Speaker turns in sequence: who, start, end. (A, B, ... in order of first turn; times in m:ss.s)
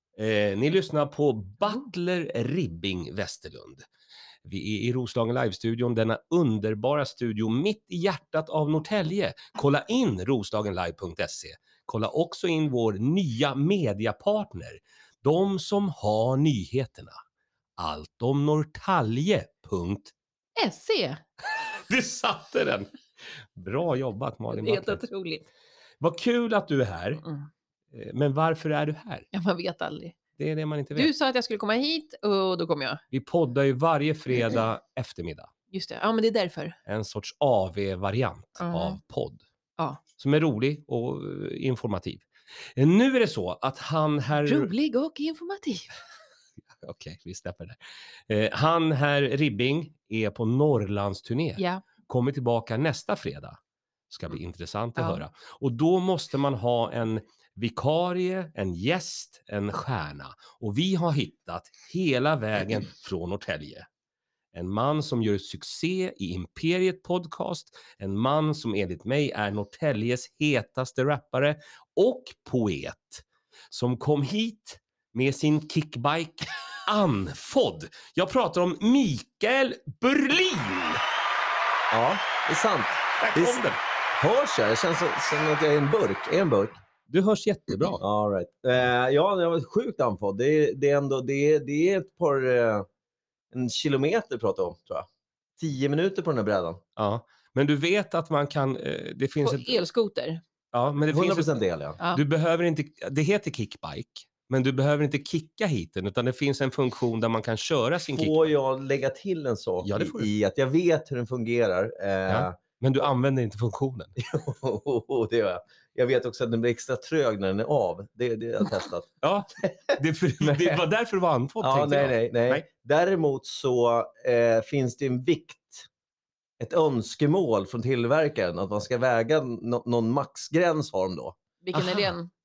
0:00.2-0:03.9 A
0:04.4-0:17.2 A
0:17.8-0:20.1 A
0:20.6-0:21.2 B
0:21.8-0:22.9 A
0:23.6-0:25.0 A
0:24.5-0:25.5 B
0:26.0-0:27.2 A
0:27.9-0:29.3 A
0:29.3-0:30.2 B
0:30.4-0:31.1 A
0:31.0-0:33.0 B
0:33.1-0:35.5 A
0:35.7-0:36.8 B
0:36.9-0:39.4 A
0:38.6-0:39.0 B
0:40.2-0:42.2 A
0:42.8-0:44.7 A
0:44.5-0:45.9 B
0:46.8-0:53.6 A
0:54.1-1:03.9 A
1:04.5-1:21.0 A
1:21.9-1:23.6 C
1:23.2-1:23.8 A
1:24.2-1:26.8 C
1:27.1-1:28.0 A
1:28.0-1:32.9 C
1:33.5-1:35.1 C
1:35.6-1:36.8 C
1:37.0-1:39.8 A
1:39.4-1:40.4 B
1:40.7-1:41.5 A
1:41.1-1:42.0 C
1:42.1-1:48.5 A
1:48.0-1:52.6 C
1:49.8-1:50.3 A
1:52.3-1:54.2 A
1:54.2-1:59.1 C
1:59.2-2:02.6 A
1:59.6-2:00.8 C
2:01.6-2:05.9 C
2:06.6-2:11.4 C
2:11.6-2:12.3 B
2:11.8-2:12.1 A